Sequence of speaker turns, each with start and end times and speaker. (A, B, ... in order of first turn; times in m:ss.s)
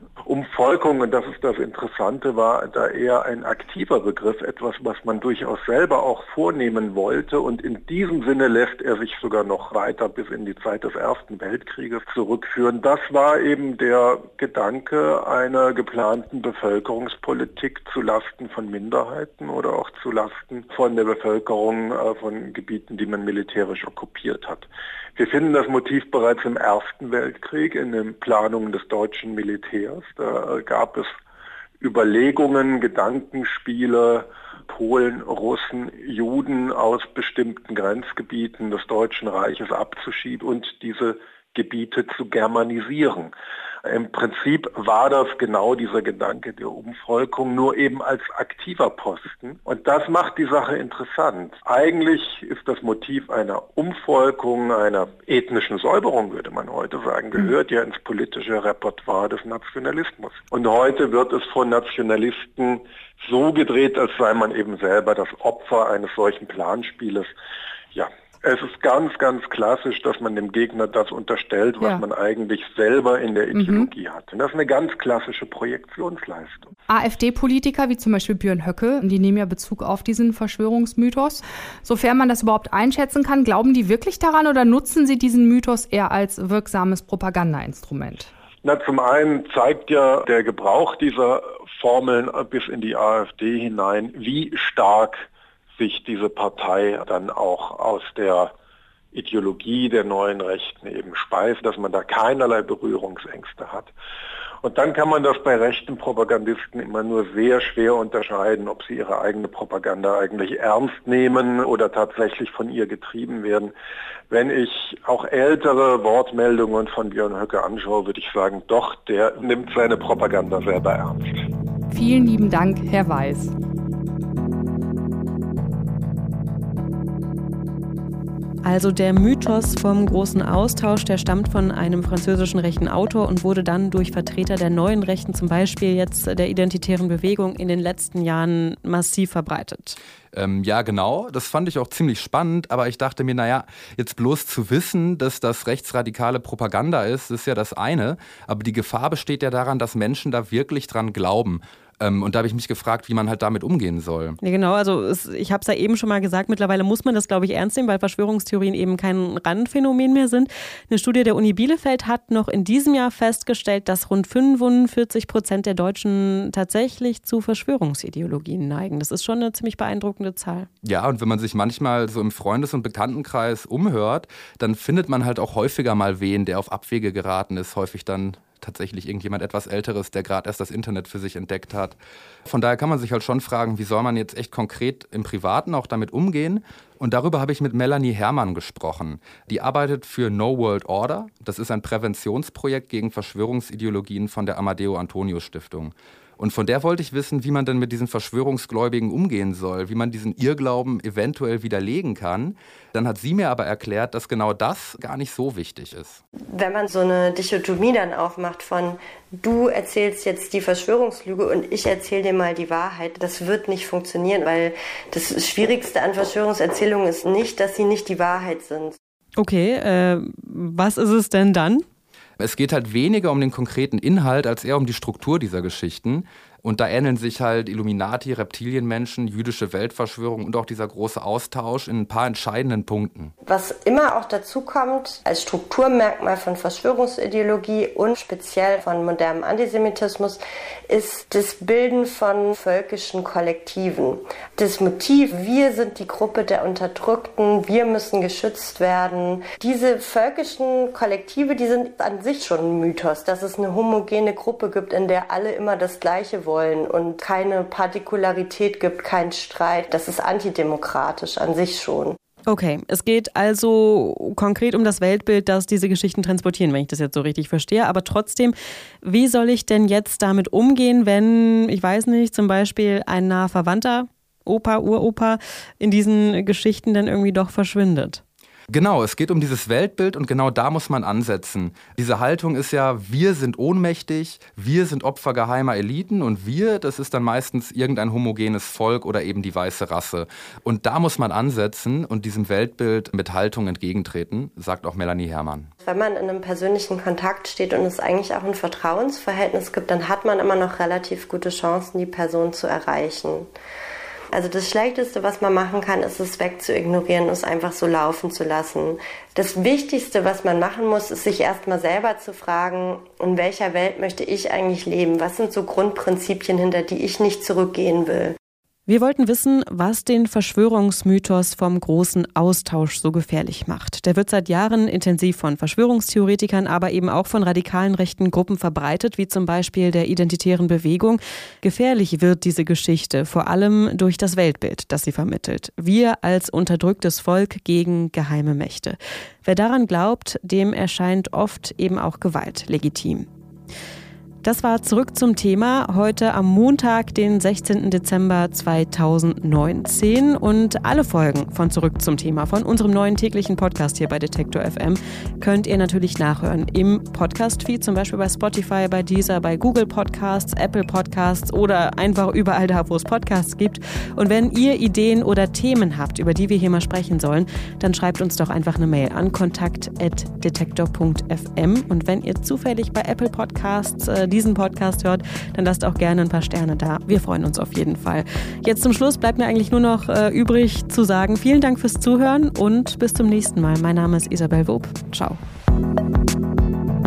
0:00.2-0:31.1 A
0:31.8-0:43.3 A
0:43.9-1:07.3 A
1:07.9-1:16.7 A
1:13.5-1:13.9 B
1:16.9-1:28.3 B
1:28.6-1:35.3 A
1:35.8-1:38.5 A
1:39.1-1:43.9 A
1:44.6-1:53.7 A
1:54.3-2:01.5 A
2:01.9-2:03.5 B
2:08.6-2:20.0 C
2:20.3-2:34.4 D
2:34.4-2:50.7 C
2:50.8-3:26.2 D
3:26.5-3:39.0 E
3:39.4-3:41.8 C
3:42.4-3:53.3 D
3:53.4-4:22.2 E
4:22.5-4:38.2 C
4:38.7-4:55.7 D
4:55.8-5:03.5 E
5:04.3-5:18.4 E
5:18.9-5:43.3 C
5:44.4-6:25.4 C